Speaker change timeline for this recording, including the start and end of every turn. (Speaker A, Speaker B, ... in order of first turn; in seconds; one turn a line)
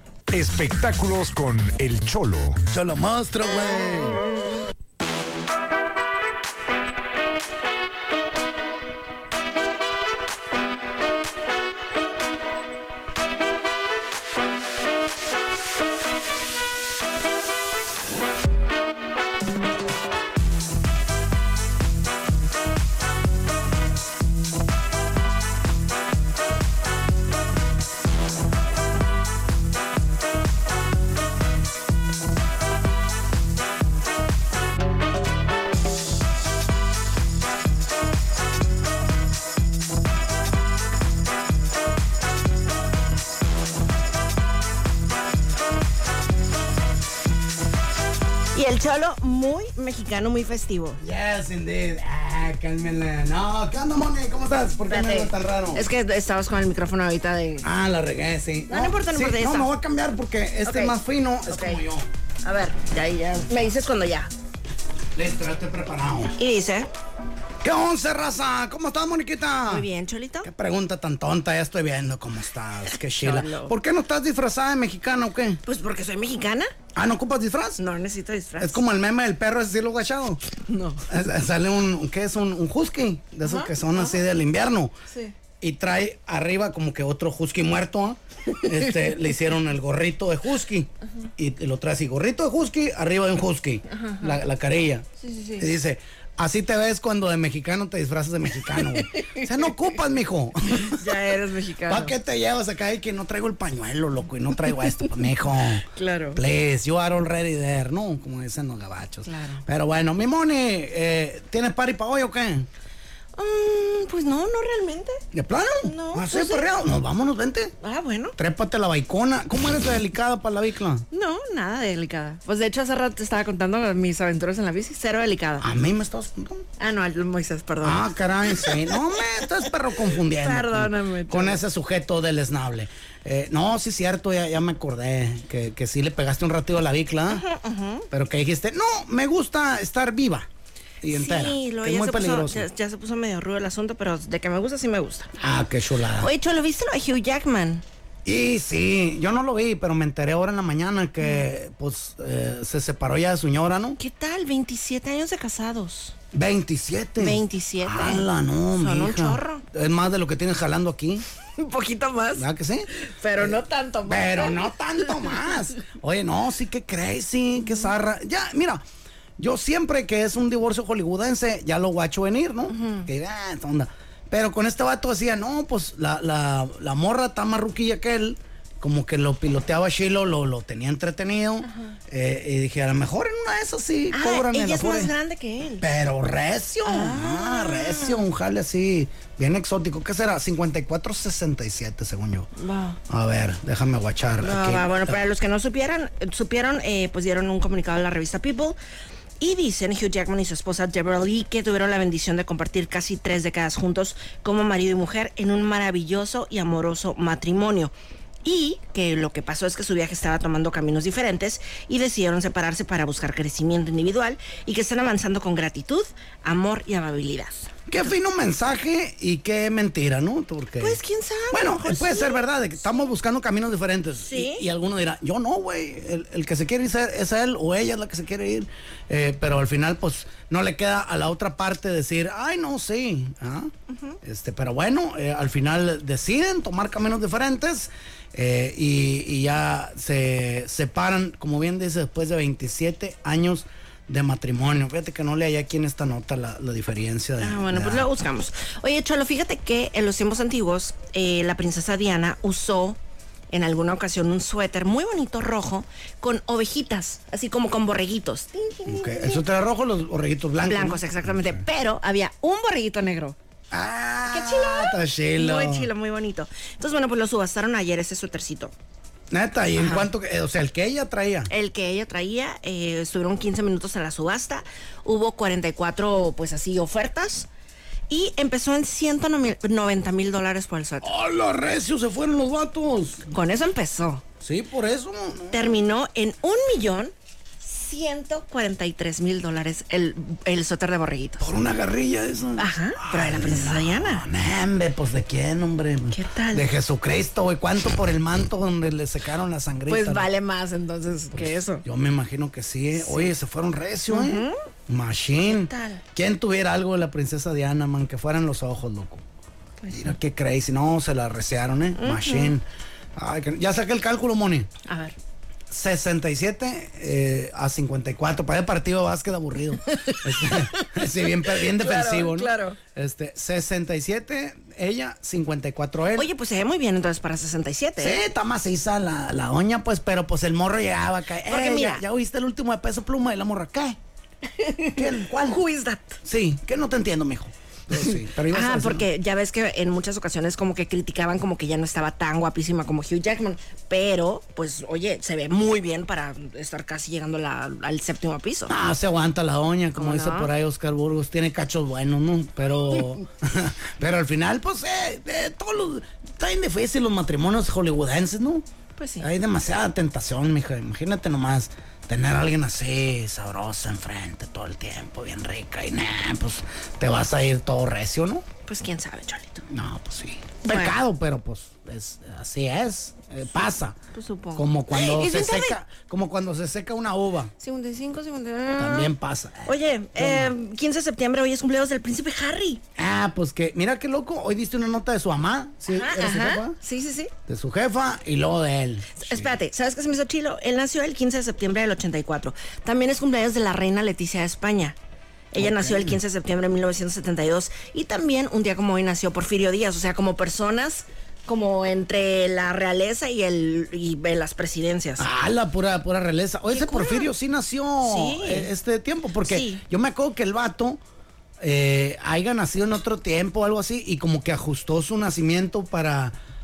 Speaker A: 0.3-2.6
Speaker B: 2.7-4.2
Speaker C: 48.5-51.0
Speaker B: 51.0-55.9
Speaker C: 54.9-57.7
Speaker B: 57.6-62.0
Speaker C: 58.7-59.7
Speaker C: 60.6-61.8
Speaker C: 62.4-64.3
Speaker B: 65.1-66.3
Speaker C: 66.4-66.9
Speaker B: 67.6-69.9
Speaker C: 69.7-70.5
Speaker B: 70.4-75.6
Speaker C: 73.2-73.7
Speaker C: 75.6-76.7
Speaker B: 76.9-77.8
Speaker C: 77.8-78.8
Speaker B: 78.6-80.4
Speaker C: 80.7-81.1
Speaker B: 81.0-85.0
Speaker C: 83.4-84.2
Speaker B: 85.6-95.1
Speaker C: 93.9-94.4
Speaker C: 95.2-95.7
Speaker B: 95.6-101.2
Speaker C: 98.8-99.9
Speaker C: 100.9-102.1
Speaker B: 101.9-112.7
Speaker C: 105.9-106.4
Speaker C: 109.2-109.6
Speaker C: 113.3-115.2
Speaker B: 115.3-117.7
Speaker C: 115.8-116.7
Speaker C: 117.8-118.4
Speaker B: 118.4-121.0
Speaker C: 121.1-125.7
Speaker B: 125.6-126.7
Speaker C: 126.8-129.0
Speaker B: 127.8-137.4
Speaker C: 130.1-131.6
Speaker C: 137.3-138.1
Speaker B: 138.1-140.5
Speaker B: 141.0-142.7
Speaker C: 141.0-145.3
Speaker B: 145.4-146.3
Speaker C: 146.2-147.8
Speaker B: 148.2-154.0
Speaker C: 154.0-156.1
Speaker B: 156.3-161.2
Speaker C: 157.2-159.6
Speaker C: 161.6-165.4
Speaker B: 162.3-168.8
Speaker B: 169.4-185.1
Speaker C: 172.7-173.1
Speaker C: 181.6-181.9
Speaker C: 184.1-185.8
Speaker B: 185.8-192.5
Speaker C: 186.8-188.2
Speaker C: 192.6-193.0
Speaker B: 193.1-195.2
Speaker C: 194.4-198.8
Speaker C: 199.4-207.9
Speaker C: 208.4-217.8
Speaker B: 217.9-221.0
Speaker C: 220.8-222.4
Speaker B: 221.5-248.1
Speaker C: 224.2-224.7
Speaker C: 233.9-234.2
Speaker C: 247.4-253.0
Speaker C: 253.5-259.4
Speaker B: 258.8-261.6
Speaker C: 260.6-263.4
Speaker B: 263.7-265.9
Speaker C: 264.3-268.7
Speaker B: 269.3-271.5
Speaker C: 269.8-270.1
Speaker C: 271.5-277.5
Speaker C: 278.1-281.1
Speaker B: 281.0-283.3
Speaker C: 283.3-284.2
Speaker B: 284.4-285.8
Speaker C: 285.5-291.5
Speaker B: 291.4-300.3
Speaker C: 292.6-294.2
Speaker C: 296.1-296.6
Speaker C: 299.9-301.8
Speaker B: 301.3-309.2
Speaker C: 302.9-303.3
Speaker C: 304.1-304.6
Speaker C: 305.4-306.0
Speaker C: 309.8-310.1
Speaker B: 309.9-312.6
Speaker C: 312.0-312.5
Speaker B: 313.1-314.7
Speaker C: 314.9-315.1
Speaker B: 315.7-326.3
Speaker C: 319.9-322.8
Speaker C: 326.1-328.2
Speaker B: 328.0-334.0
Speaker C: 331.4-332.0
Speaker C: 334.5-336.2
Speaker B: 334.9-335.6
Speaker B: 336.2-339.1
Speaker C: 337.9-348.7
Speaker B: 348.7-358.6
Speaker C: 350.0-350.5
Speaker C: 359.0-359.3
Speaker B: 359.2-368.4
Speaker C: 368.6-369.6
Speaker B: 369.7-374.0
Speaker C: 370.6-371.0
Speaker C: 374.1-375.8
Speaker B: 374.5-377.5
Speaker C: 377.6-379.1
Speaker B: 378.8-380.5
Speaker C: 379.6-382.8
Speaker B: 382.9-386.8
Speaker C: 385.9-387.3
Speaker B: 387.5-389.5
Speaker C: 389.1-394.9
Speaker C: 395.5-405.2
Speaker B: 395.6-396.2
Speaker B: 405.2-411.0
Speaker C: 406.7-407.3
Speaker C: 408.0-408.7
Speaker C: 409.4-409.8
Speaker B: 411.6-416.4